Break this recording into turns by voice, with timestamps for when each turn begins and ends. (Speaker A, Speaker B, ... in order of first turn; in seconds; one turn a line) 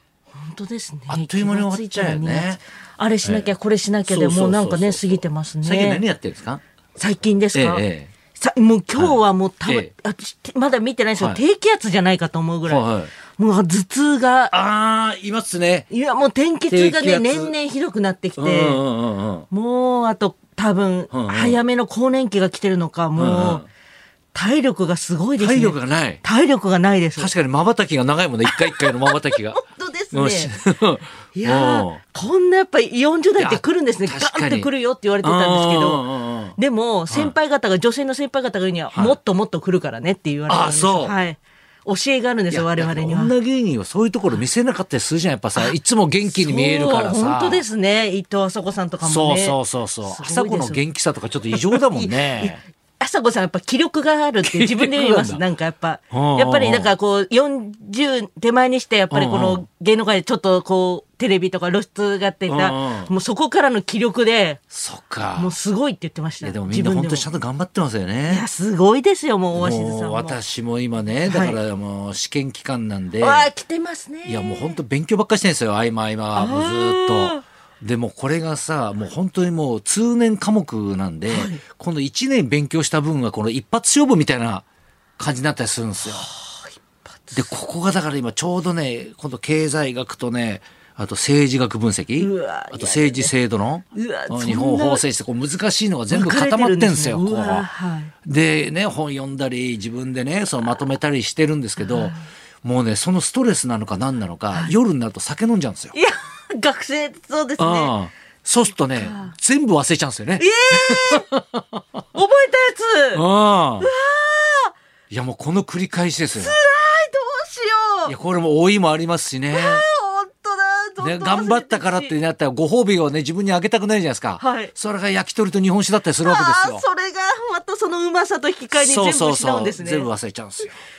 Speaker A: 0.3-6.0
Speaker B: 1.1-2.6
Speaker B: 3.2-3.5
Speaker B: 4.1-6.6
Speaker A: 7.0-7.8
Speaker B: 7.5-8.1
Speaker A: 8.4-12.8
Speaker B: 9.0-9.9
Speaker B: 12.7-13.1
Speaker A: 13.4-14.5
Speaker B: 14.5-15.9
Speaker A: 15.9-18.8
Speaker B: 16.7-17.5
Speaker B: 18.4-19.5
Speaker A: 19.5-23.6
Speaker B: 21.1-21.6
Speaker B: 23.2-23.7
Speaker A: 24.3-27.3
Speaker B: 25.4-26.2
Speaker B: 27.2-29.6
Speaker A: 28.4-30.5
Speaker B: 30.1-32.0
Speaker A: 31.4-43.3
Speaker B: 33.4-34.7
Speaker B: 35.2-36.6
Speaker B: 37.1-37.4
Speaker B: 40.5-41.1
Speaker B: 42.5-47.6
Speaker A: 46.3-50.8
Speaker B: 49.0-52.6
Speaker A: 51.5-64.6
Speaker B: 54.4-55.4
Speaker B: 56.1-56.9
Speaker B: 59.1-59.6
Speaker B: 62.5-63.1
Speaker B: 64.7-65.5
Speaker A: 65.4-67.2
Speaker B: 66.4-68.5
Speaker A: 68.3-70.4
Speaker B: 69.5-73.5
Speaker A: 71.3-71.6
Speaker A: 73.2-74.8
Speaker B: 74.2-84.7
Speaker A: 76.3-77.4
Speaker A: 81.3-81.6
Speaker B: 85.2-86.3
Speaker A: 86.0-87.4
Speaker B: 87.3-97.7
Speaker A: 92.2-93.3
Speaker A: 93.9-95.0
Speaker A: 96.1-98.1
Speaker B: 98.2-106.0
Speaker A: 101.8-102.2
Speaker A: 105.9-108.0
Speaker B: 107.6-111.8
Speaker A: 109.0-109.3
Speaker A: 110.4-111.3
Speaker A: 112.1-113.2
Speaker B: 113.1-113.9
Speaker A: 113.8-114.7
Speaker B: 115.1-116.6
Speaker A: 116.4-118.1
Speaker B: 118.1-119.8
Speaker A: 119.5-122.1
Speaker B: 121.0-126.8
Speaker A: 124.4-124.7
Speaker A: 126.2-130.1
Speaker B: 128.7-130.8